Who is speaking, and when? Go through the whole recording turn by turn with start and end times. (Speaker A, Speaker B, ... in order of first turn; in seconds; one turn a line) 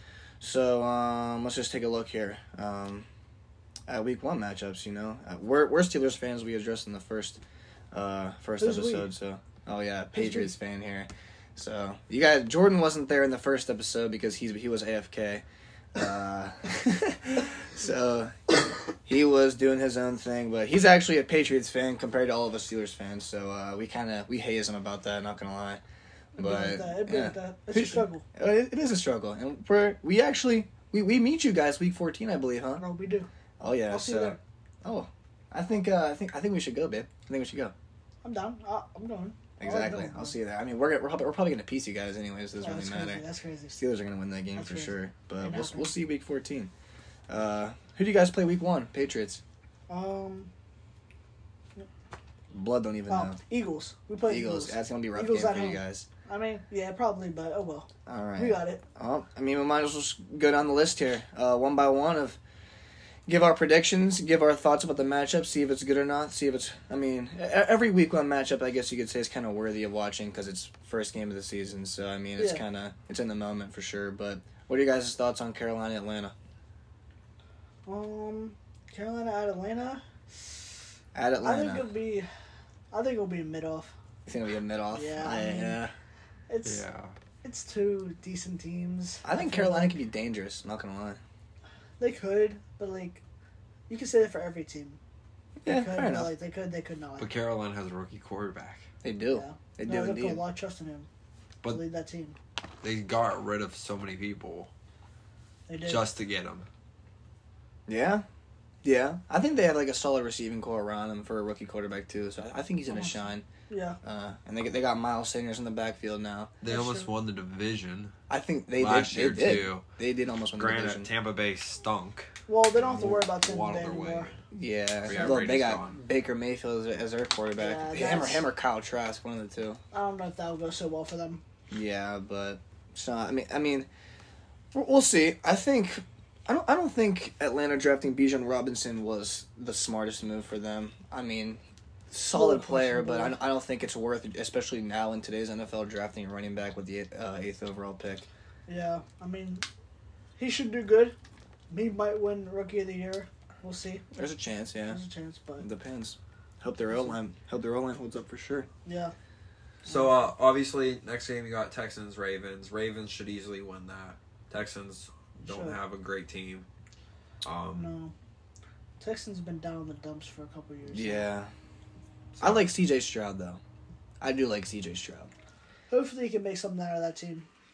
Speaker A: 0.4-3.1
Speaker A: 3.9-25.8
Speaker B: 8.6-9.1
Speaker B: 10.1-10.5
Speaker B: 26.4-28.2
Speaker A: 26.4-32.8
Speaker B: 32.8-33.3
Speaker A: 33.6-37.7
Speaker B: 33.9-34.4
Speaker B: 38.2-40.4
Speaker A: 39.6-43.2
Speaker B: 42.6-43.8
Speaker A: 43.8-46.7
Speaker B: 44.5-45.9
Speaker A: 47.3-49.4
Speaker B: 49.9-50.5
Speaker A: 52.5-53.4
Speaker B: 53.1-58.8
Speaker A: 54.3-56.1
Speaker A: 58.0-62.4
Speaker A: 63.3-76.3
Speaker B: 72.4-72.6
Speaker B: 77.8-80.0
Speaker A: 81.1-81.9
Speaker B: 81.4-82.3
Speaker B: 82.9-83.9
Speaker A: 84.2-85.9
Speaker B: 84.9-85.8
Speaker B: 86.5-86.8
Speaker C: 86.6-87.2
Speaker B: 87.4-90.0
Speaker A: 89.2-91.2
Speaker B: 92.0-93.2
Speaker B: 93.9-95.0
Speaker A: 95.6-96.3
Speaker B: 95.7-97.3
Speaker C: 97.2-98.9
Speaker A: 99.0-100.4
Speaker B: 99.3-101.1
Speaker B: 101.7-102.4
Speaker C: 102.8-104.7
Speaker B: 105.7-106.0
Speaker C: 105.8-106.7
Speaker A: 107.9-108.2
Speaker A: 108.8-113.4
Speaker B: 112.9-114.0
Speaker A: 114.0-116.5
Speaker C: 116.6-118.1
Speaker B: 116.7-117.1
Speaker A: 118.3-121.1
Speaker C: 118.8-119.8
Speaker C: 120.6-124.4
Speaker B: 122.5-124.3
Speaker A: 124.5-129.8
Speaker C: 125.0-126.0
Speaker B: 125.1-125.4
Speaker B: 127.6-128.5
Speaker B: 129.9-131.4
Speaker A: 131.7-133.9
Speaker A: 134.7-148.3
Speaker B: 142.3-143.4
Speaker B: 148.7-149.7
Speaker B: 150.4-151.2
Speaker B: 151.7-154.0
Speaker A: 154.1-155.0
Speaker B: 154.9-155.7
Speaker A: 155.6-158.7
Speaker B: 156.9-157.1
Speaker B: 158.8-159.1
Speaker B: 159.8-160.1
Speaker C: 159.9-166.7
Speaker B: 165.4-165.8
Speaker C: 167.4-167.9
Speaker B: 167.7-168.1
Speaker B: 169.0-171.3
Speaker A: 170.9-171.5
Speaker C: 172.3-172.7
Speaker A: 172.4-173.6
Speaker A: 174.2-175.3
Speaker B: 175.9-177.5